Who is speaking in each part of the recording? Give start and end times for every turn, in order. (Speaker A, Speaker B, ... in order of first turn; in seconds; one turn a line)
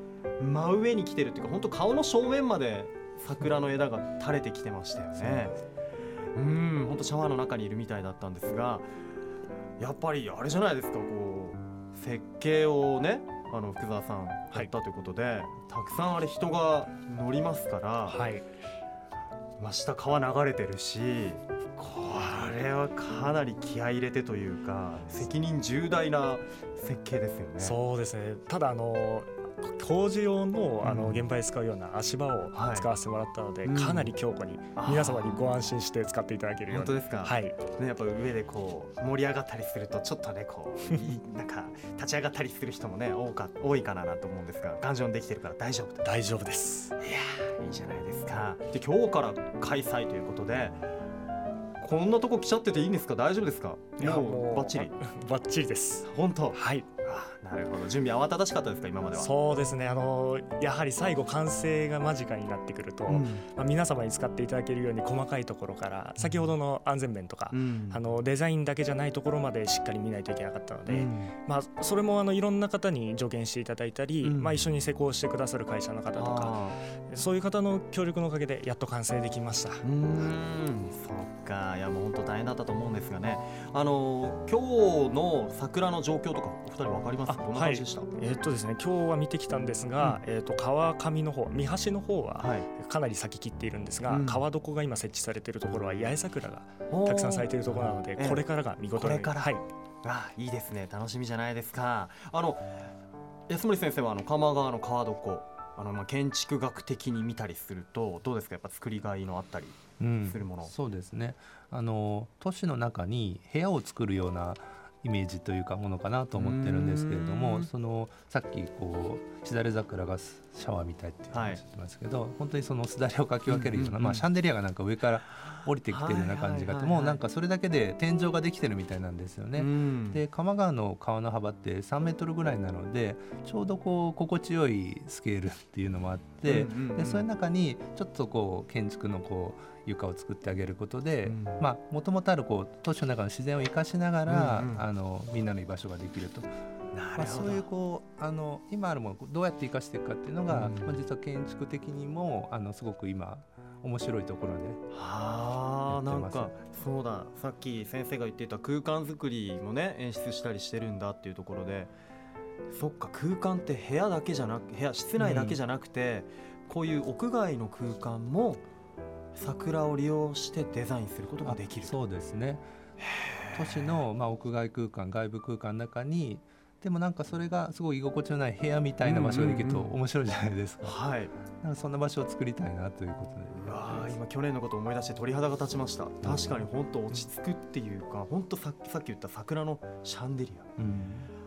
Speaker A: 0.4-5.5
Speaker B: 5.2-5.5
Speaker A: 6.3-8.9
Speaker A: 9.8-18.2
Speaker C: 18.1-18.4
Speaker A: 19.6-27.8
Speaker C: 27.6-37.6
Speaker A: 30.8-31.3
Speaker A: 32.5-32.9
Speaker A: 33.6-34.1
Speaker A: 34.8-35.5
Speaker A: 36.7-46.1
Speaker C: 46.0-47.0
Speaker A: 47.0-50.8
Speaker A: 51.8-54.9
Speaker C: 54.0-56.9
Speaker A: 56.0-59.3
Speaker C: 59.2-79.8
Speaker A: 63.1-63.5
Speaker A: 66.2-66.5
Speaker A: 67.5-68.0
Speaker A: 70.9-71.3
Speaker A: 74.2-74.6
Speaker A: 76.2-76.8
Speaker A: 79.8-88.1
Speaker C: 87.3-99.6
Speaker A: 92.4-92.7
Speaker A: 94.1-94.4
Speaker A: 96.9-102.8
Speaker A: 103.5-110.7
Speaker B: 110.0-146.5
Speaker A: 116.3-117.7
Speaker A: 121.3-121.6
Speaker A: 123.5-124.3
Speaker A: 125.3-127.2
Speaker A: 129.6-130.2
Speaker A: 136.4-137.3
Speaker A: 141.2-141.7
Speaker A: 144.3-144.8
Speaker A: 146.9-147.7
Speaker B: 147.2-154.8
Speaker A: 150.5-151.1
Speaker A: 154.9-161.9
Speaker B: 155.9-156.5
Speaker A: 162.7-168.6
Speaker B: 165.2-165.6
Speaker A: 169.3-171.9
Speaker B: 171.4-172.7
Speaker A: 173.0-174.0
Speaker B: 173.6-181.0
Speaker A: 179.0-179.9
Speaker A: 180.8-181.3
Speaker B: 181.6-184.2
Speaker A: 183.5-190.7
Speaker B: 186.2-186.7
Speaker B: 190.8-191.3